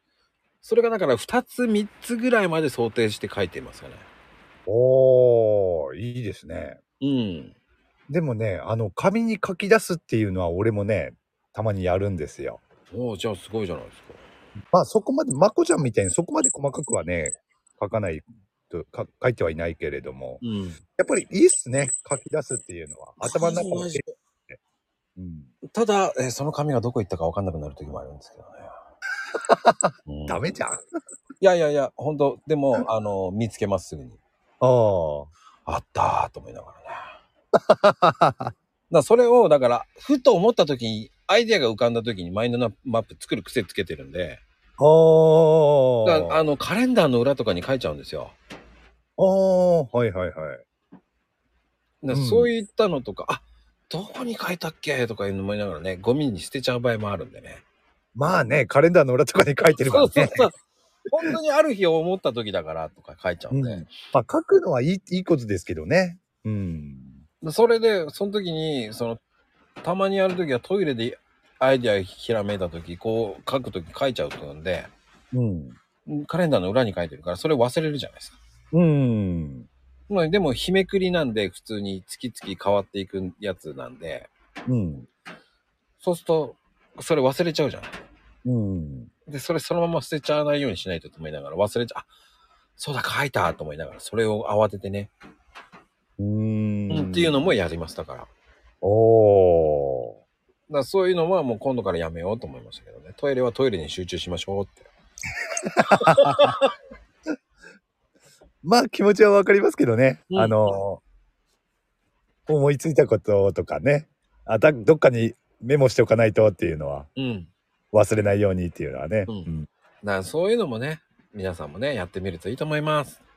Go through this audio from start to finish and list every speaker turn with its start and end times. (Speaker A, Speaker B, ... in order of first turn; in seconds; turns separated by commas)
Speaker A: 0.6-4.1, Speaker B: 4.7-6.8, Speaker A: 7.0-7.5, Speaker B: 8.1-12.6, Speaker A: 12.9-14.2, Speaker B: 14.7-20.4, Speaker A: 20.4-20.8, Speaker B: 21.0-24.0, Speaker A: 23.2-24.1, Speaker B: 25.2-25.5, Speaker A: 25.7-28.7, Speaker B: 29.4-30.8, Speaker A: 30.1-30.5, Speaker A: 31.4-34.2, Speaker B: 34.6-35.3, Speaker A: 35.7-37.1, Speaker B: 37.5-38.5, Speaker A: 38.9-44.4, Speaker B: 44.8-46.4, Speaker A: 46.0-48.4, Speaker B: 49.2-50.6, Speaker A: 52.0-57.6, Speaker B: 52.1-52.5, Speaker B: 58.1-60.5, Speaker A: 59.9-60.6, Speaker A: 61.1-63.9, Speaker B: 63.5-67.2, Speaker A: 67.4-69.2, Speaker A: 69.8-74.9, Speaker B: 75.3-75.8, Speaker A: 76.1-78.4, Speaker B: 78.7-79.7, Speaker A: 80.1-84.3, Speaker B: 84.7-85.1, Speaker A: 86.0-88.0, Speaker B: 88.5-89.1, Speaker A: 89.3-92.1, Speaker A: 92.8-95.1, Speaker B: 96.2-97.5, Speaker A: 96.9-98.3, Speaker B: 98.8-100.2, Speaker A: 100.7-104.9, Speaker B: 105.8-106.6, Speaker A: 106.0-106.6, Speaker B: 108.6-111.0, Speaker A: 110.3-110.8, Speaker B: 112.5-117.1, Speaker A: 117.2-117.5, Speaker B: 117.9-119.7, Speaker A: 120.0-123.2